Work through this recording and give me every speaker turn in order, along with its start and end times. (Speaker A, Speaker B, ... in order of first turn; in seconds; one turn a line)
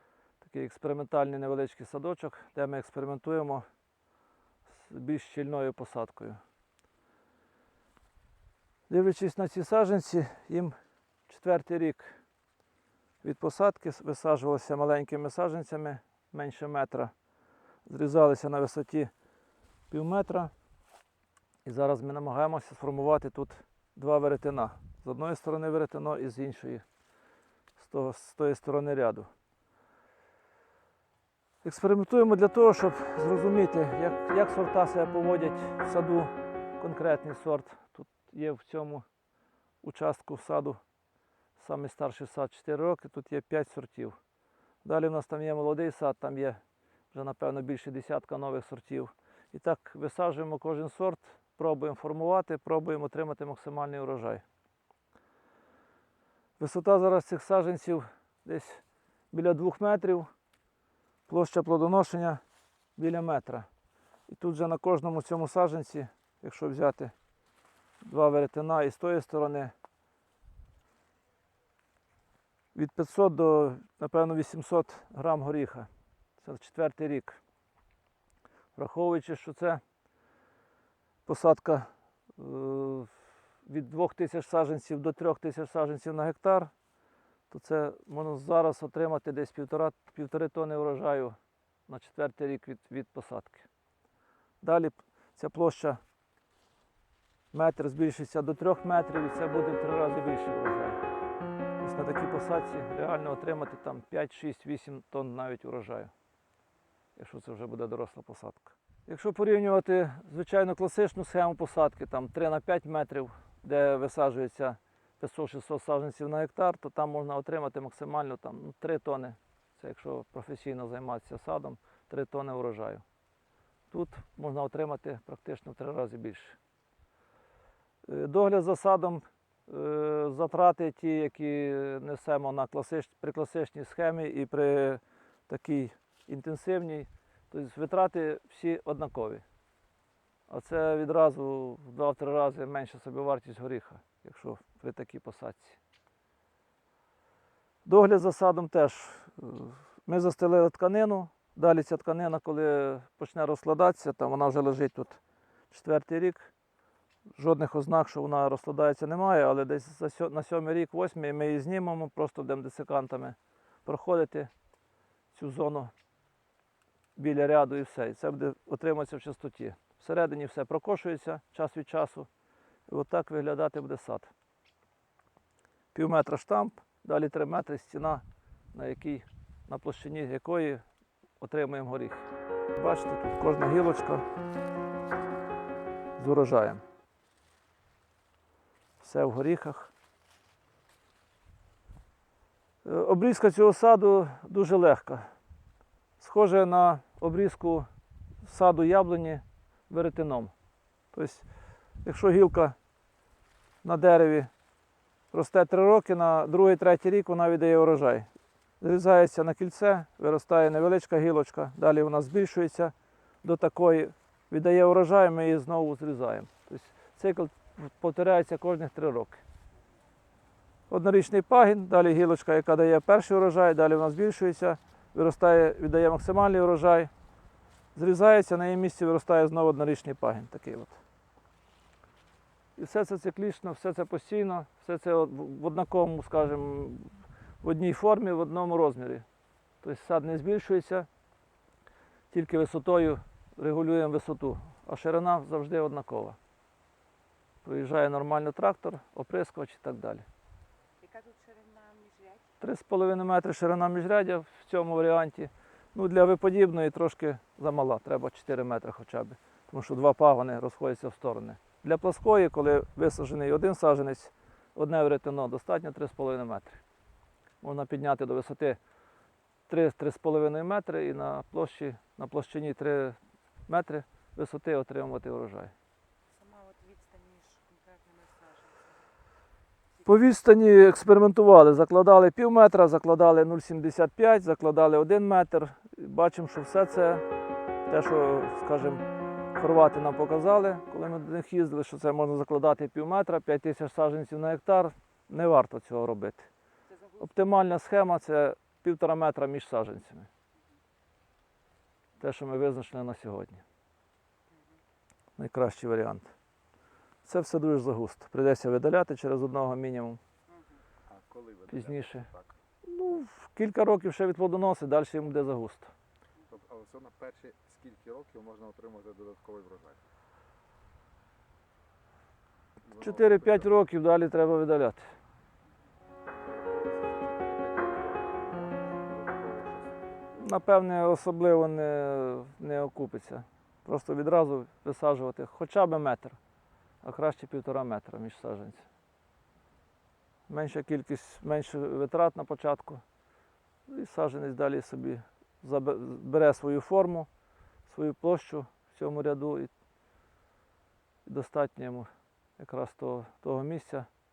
Speaker A: 0.4-3.6
Speaker A: 4.7-6.4
Speaker A: 8.9-10.7
Speaker A: 11.3-12.2
Speaker A: 13.2-17.1
Speaker A: 17.9-19.1
Speaker A: 19.9-20.5
Speaker A: 21.6-26.8
Speaker A: 27.8-29.3
Speaker A: 31.6-39.0
Speaker A: 39.8-40.8
Speaker A: 41.6-44.2
Speaker A: 44.8-46.6
Speaker A: 47.1-54.4
Speaker A: 56.6-60.3
Speaker A: 61.3-62.4
Speaker A: 63.0-63.7
Speaker A: 64.3-67.1
Speaker A: 68.0-69.7
Speaker A: 72.7-75.9
Speaker A: 76.4-77.4
Speaker A: 78.7-79.8
Speaker A: 81.2-83.1
Speaker A: 83.7-86.7
Speaker A: 87.5-91.3
Speaker A: 91.9-93.7
Speaker A: 94.6-96.0
Speaker A: 97.5-101.0
Speaker A: 101.8-106.1
Speaker A: 107.2-123.0
Speaker A: 123.9-126.6
Speaker A: 128.0-139.4
Speaker A: 140.5-145.8
Speaker A: 147.8-156.5
Speaker A: 157.4-164.5
Speaker A: 165.3-165.9
Speaker A: 167.2-172.3
Speaker A: 172.9-174.3
Speaker A: 175.9-180.8
Speaker A: 181.4-184.2
Speaker A: 186.2-186.8
Speaker A: 189.0-189.9
Speaker A: 192.8-195.3
Speaker A: 196.2-197.9
Speaker A: 198.4-200.5
Speaker A: 201.1-201.4
Speaker A: 202.0-202.8
Speaker A: 203.8-204.5
Speaker A: 205.3-208.3
Speaker A: 208.8-219.4
Speaker A: 220.9-227.1
Speaker A: 227.9-231.0
Speaker A: 232.8-239.2
Speaker A: 239.8-241.1
Speaker A: 242.3-246.4
Speaker A: 247.6-250.2
Speaker B: 251.0-252.4
Speaker A: 252.6-266.8
Speaker A: 267.6-268.8
Speaker A: 269.7-275.7
Speaker B: 276.3-278.9
Speaker A: 280.0-287.2
Speaker A: 287.9-289.0
Speaker A: 289.6-296.5
Speaker B: 296.9-297.2
Speaker A: 297.2-300.3
Speaker A: 302.2-303.6
Speaker A: 305.4-306.3
Speaker A: 307.2-310.2
Speaker C: 311.1-312.6
Speaker A: 311.7-312.3
Speaker A: 312.8-315.9
Speaker C: 316.5-320.0
Speaker C: 322.8-323.7
Speaker A: 322.9-325.1
Speaker C: 326.4-330.2
Speaker A: 330.4-336.4
Speaker A: 337.0-338.9
Speaker A: 340.5-343.0
Speaker A: 343.9-347.3
Speaker A: 347.9-349.7
Speaker A: 351.2-354.1